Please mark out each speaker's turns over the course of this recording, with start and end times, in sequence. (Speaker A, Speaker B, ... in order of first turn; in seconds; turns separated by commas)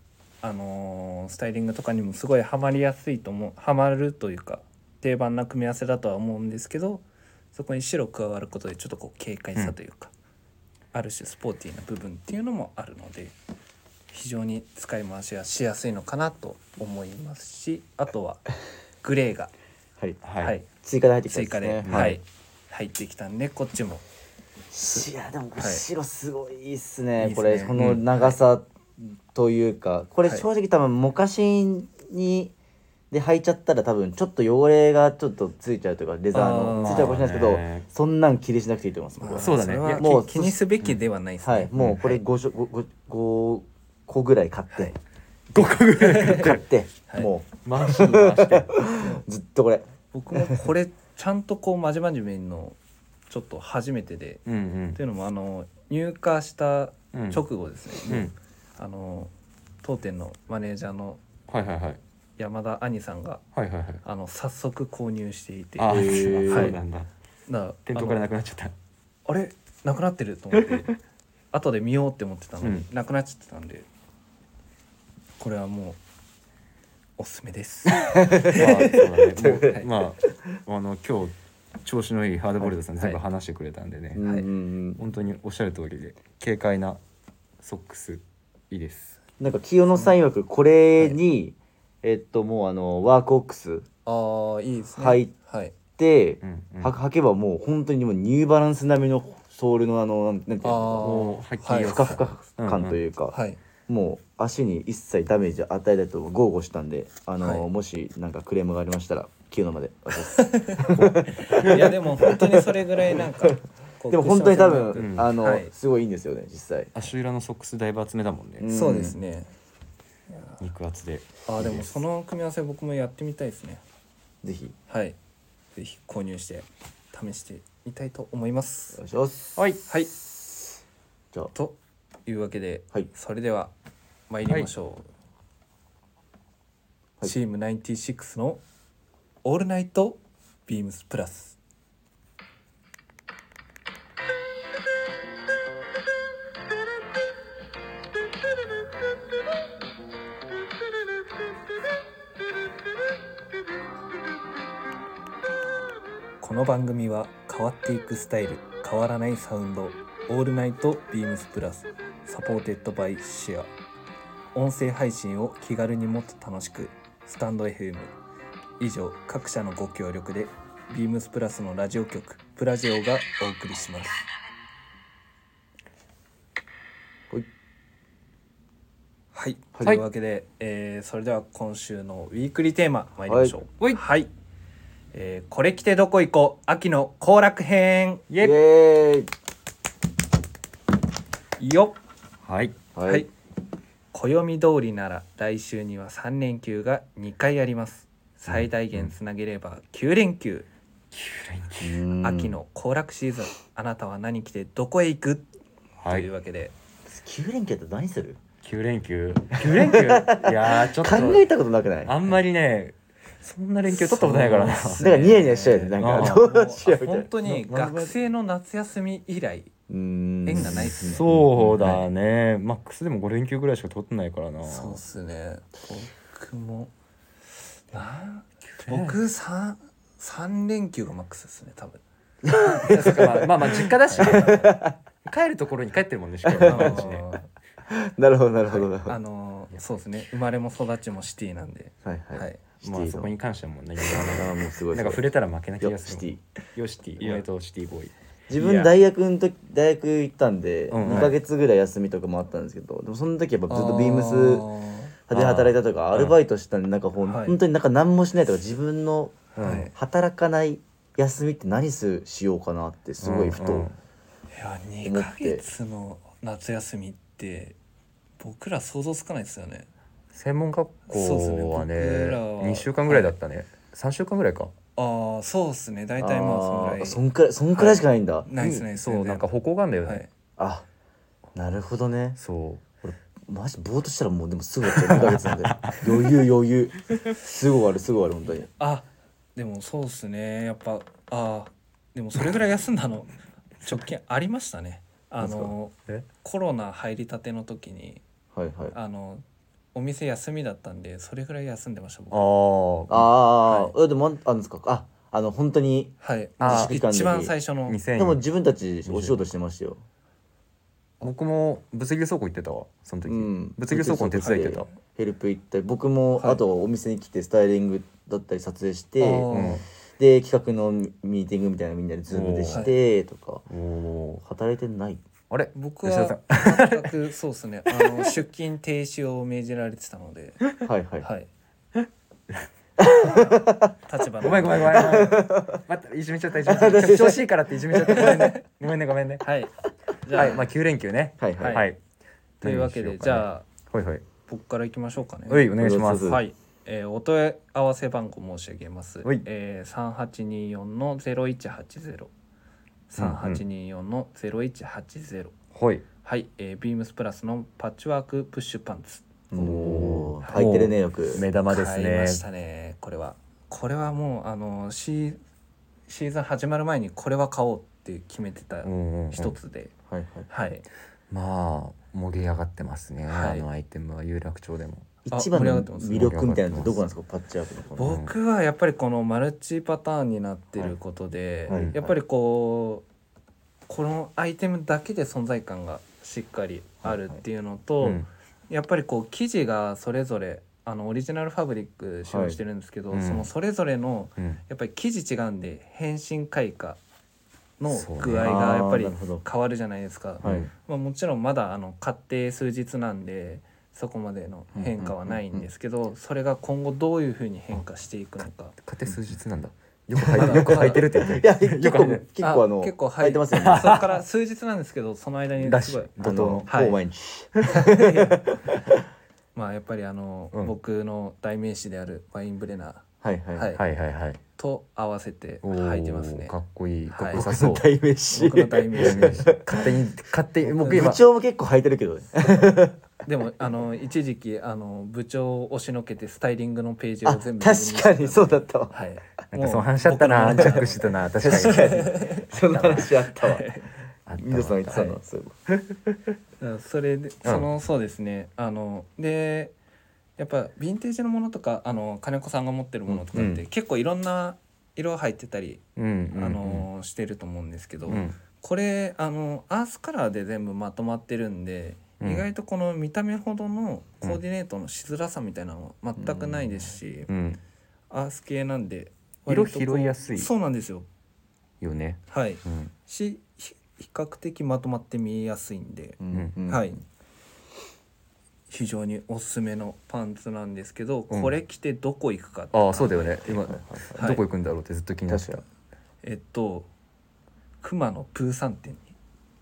Speaker A: 0.4-10.1, Speaker A: 10.9-13.3, Speaker A: 14.1-18.5, Speaker A: 19.0-19.5, Speaker B: 20.2-20.6, Speaker A: 20.4-20.7, Speaker C: 20.7-22.2, Speaker A: 21.3-24.0, Speaker B: 21.9-22.2, Speaker C: 24.7-32.5, Speaker A: 25.6-25.9, Speaker A: 27.2-28.4, Speaker B: 27.8-28.1, Speaker C: 33.1-40.6, Speaker A: 36.3-37.2, Speaker B: 36.8-37.9, Speaker A: 39.2-42.2, Speaker B: 39.4-40.1, Speaker C: 41.4-45.0, Speaker B: 41.8-42.0, Speaker B: 45.5-46.6, Speaker C: 45.5-50.6, Speaker A: 46.0-46.5, Speaker B: 47.6-48.8, Speaker A: 50.1-52.8, Speaker A: 53.3-54.4, Speaker B: 54.5-55.0, Speaker A: 55.0-59.3, Speaker B: 57.1-57.4, Speaker B: 58.1-58.3, Speaker A: 59.8-61.2, Speaker B: 61.5-62.0, Speaker A: 62.4-63.4, Speaker B: 63.5-64.0, Speaker A: 64.0-66.8, Speaker B: 65.8-67.1, Speaker C: 65.9-66.8, Speaker A: 67.5-68.3, Speaker B: 67.9-68.7, Speaker A: 69.3-70.9, Speaker A: 71.5-73.9, Speaker B: 72.6-72.9, Speaker A: 75.4-76.0, Speaker A: 77.2-79.0, Speaker C: 78.0-79.9, Speaker B: 78.5-84.2, Speaker C: 84.1-85.0, Speaker B: 85.0-87.0, Speaker B: 87.6-89.2, Speaker C: 89.4-93.9, Speaker A: 94.1-95.8, Speaker C: 95.0-95.3, Speaker C: 96.0-101.2, Speaker B: 96.4-96.9, Speaker A: 100.6-102.2, Speaker B: 101.0-103.0, Speaker C: 101.7-103.4, Speaker A: 103.3-103.6, Speaker C: 103.9-113.5, Speaker A: 107.4-107.7, Speaker A: 110.3-115.7, Speaker B: 111.0-111.8, Speaker C: 114.1-117.0, Speaker B: 115.0-115.3, Speaker B: 117.0-118.7, Speaker C: 118.6-119.2, Speaker A: 118.7-119.5, Speaker A: 120.3-120.6, Speaker B: 120.6-122.0, Speaker A: 121.5-123.8, Speaker C: 124.4-124.8, Speaker A: 124.9-125.2, Speaker A: 125.8-129.0, Speaker C: 128.9-129.5, Speaker B: 129.6-129.8, Speaker A: 129.9-130.1, Speaker A: 131.5-133.7, Speaker A: 134.3-135.1, Speaker A: 137.2-138.6, Speaker A: 139.4-141.6, Speaker A: 156.4-163.7, Speaker A: 164.5-168.1, Speaker A: 168.8-174.2, Speaker A: 179.3-184.3, Speaker C: 183.3-183.6, Speaker A: 185.1-188.2, Speaker B: 188.3-188.6, Speaker C: 188.4-189.3, Speaker A: 191.6-192.0, Speaker B: 192.5-192.8, Speaker C: 192.9-193.3, Speaker A: 194.1-200.7, Speaker B: 201.1-202.0, Speaker C: 201.8-202.6, Speaker A: 202.2-205.5, Speaker B: 206.0-206.3, Speaker A: 206.1-206.7, Speaker C: 207.1-208.4, Speaker B: 208.6-211.5, Speaker C: 209.6-212.3, Speaker B: 212.1-216.4, Speaker A: 213.9-219.7, Speaker C: 214.9-217.3, Speaker B: 217.4-218.1, Speaker C: 219.9-222.0, Speaker A: 220.5-221.2, Speaker B: 220.6-225.0, Speaker A: 224.6-226.9, Speaker A: 227.9-232.0, Speaker B: 228.8-229.2, Speaker C: 232.4-235.0, Speaker B: 232.8-237.3, Speaker A: 234.1-234.6, Speaker C: 236.4-237.1, Speaker A: 236.6-237.5, Speaker C: 237.9-239.2, Speaker A: 238.7-242.6, Speaker C: 242.0-243.3, Speaker B: 242.8-248.9, Speaker C: 244.0-245.3, Speaker C: 245.8-246.4, Speaker C: 248.5-254.7, Speaker B: 250.9-251.4, Speaker A: 253.7-255.1, Speaker C: 255.3-263.9, Speaker B: 255.3-256.4, Speaker A: 257.2-257.6, Speaker A: 259.6-259.9, Speaker B: 259.6-259.9, Speaker B: 263.2-263.9, Speaker A: 264.5-267.8, Speaker C: 265.0-265.6, Speaker A: 268.4-269.9, Speaker B: 270.3-274.7, Speaker A: 271.1-273.3, Speaker A: 275.0-277.2, Speaker C: 276.2-278.5, Speaker A: 277.7-279.5, Speaker B: 278.6-280.2, Speaker C: 280.6-280.9, Speaker C: 281.6-282.4, Speaker B: 282.4-283.1, Speaker C: 283.5-288.7, Speaker B: 284.9-286.3, Speaker A: 288.8-298.2, Speaker C: 298.5-298.9, Speaker A: 298.9-302.5, Speaker B: 302.3-303.3, Speaker C: 303.1-307.5, Speaker A: 303.7-303.9, Speaker A: 306.2-308.0, Speaker B: 306.6-307.0, Speaker B: 307.9-308.4, Speaker C: 308.2-310.0, Speaker B: 309.1-309.4, Speaker B: 311.2-314.9, Speaker C: 313.3-319.5, Speaker A: 319.2-319.8, Speaker B: 319.5-319.9, Speaker C: 320.2-323.7, Speaker B: 322.3-322.9, Speaker B: 323.7-324.4, Speaker C: 324.4-325.2, Speaker B: 325.5-327.1, Speaker A: 325.7-330.6, Speaker B: 328.0-328.2, Speaker C: 330.8-331.3, Speaker A: 331.2-331.5, Speaker C: 333.0-333.9, Speaker A: 333.2-335.2, Speaker B: 334.4-339.4, Speaker C: 334.7-335.8, Speaker C: 336.6-338.4, Speaker A: 338.1-338.6, Speaker A: 339.4-339.7, Speaker A: 340.2-340.6, Speaker B: 340.3-342.0, Speaker C: 341.4-341.8, Speaker A: 341.6-341.9, Speaker A: 342.6-343.7, Speaker B: 342.6-344.2, Speaker A: 344.5-352.3, Speaker B: 345.5-346.4, Speaker C: 345.8-346.4, Speaker A: 353.1-355.5, Speaker B: 353.2-353.6, Speaker B: 355.8-356.1, Speaker A: 356.2-359.3, Speaker C: 359.5-361.5, Speaker B: 359.6-362.4, Speaker A: 361.7-365.4, Speaker A: 366.1-369.9, Speaker B: 368.8-369.6, Speaker C: 370.1-370.5, Speaker A: 370.5-370.9, Speaker B: 371.3-375.1, Speaker A: 373.3-373.7, Speaker C: 375.2-378.2, Speaker A: 375.3-376.2, Speaker B: 376.1-377.0, Speaker A: 378.0-383.1, Speaker B: 378.0-378.3, Speaker B: 381.7-382.0, Speaker C: 381.7-382.1, Speaker A: 383.9-397.0, Speaker C: 387.0-387.4, Speaker B: 388.0-388.3, Speaker C: 392.3-392.6, Speaker B: 393.1-393.5, Speaker A: 397.8-408.8, Speaker B: 397.9-398.6, Speaker C: 398.4-399.4, Speaker C: 400.4-400.7, Speaker B: 400.4-400.7, Speaker C: 404.8-405.6, Speaker B: 408.8-412.2, Speaker C: 410.2-414.1, Speaker A: 410.3-411.0, Speaker A: 412.4-416.1, Speaker B: 413.5-414.2, Speaker B: 415.6-416.7, Speaker C: 416.2-419.1, Speaker A: 416.7-417.0, Speaker A: 417.7-418.4, Speaker A: 419.6-423.8, Speaker C: 423.2-423.7, Speaker B: 423.8-424.4, Speaker A: 424.6-426.5, Speaker B: 425.6-427.9, Speaker A: 427.1-427.4, Speaker C: 427.3-430.1, Speaker A: 428.3-429.5, Speaker B: 429.0-431.2, Speaker C: 430.6-433.0, Speaker A: 430.8-431.2, Speaker A: 433.2-443.9, Speaker C: 437.2-438.9, Speaker B: 439.5-443.1, Speaker C: 440.6-440.8, Speaker C: 441.4-443.7, Speaker B: 444.3-445.1, Speaker C: 444.4-446.4, Speaker A: 444.9-445.2, Speaker A: 446.6-449.8, Speaker A: 450.4-455.8, Speaker B: 453.1-453.6, Speaker B: 456.0-456.9, Speaker A: 456.3-467.3, Speaker B: 458.1-458.4, Speaker B: 462.2-462.5, Speaker C: 466.2-466.9, Speaker B: 467.3-467.6, Speaker A: 468.1-471.1, Speaker B: 469.5-470.5, Speaker B: 471.8-472.9, Speaker A: 472.3-477.0, Speaker C: 476.2-476.9, Speaker A: 478.7-484.4, Speaker B: 482.7-485.6, Speaker C: 483.8-484.0, Speaker C: 485.3-485.6, Speaker A: 486.2-486.9, Speaker A: 487.8-489.1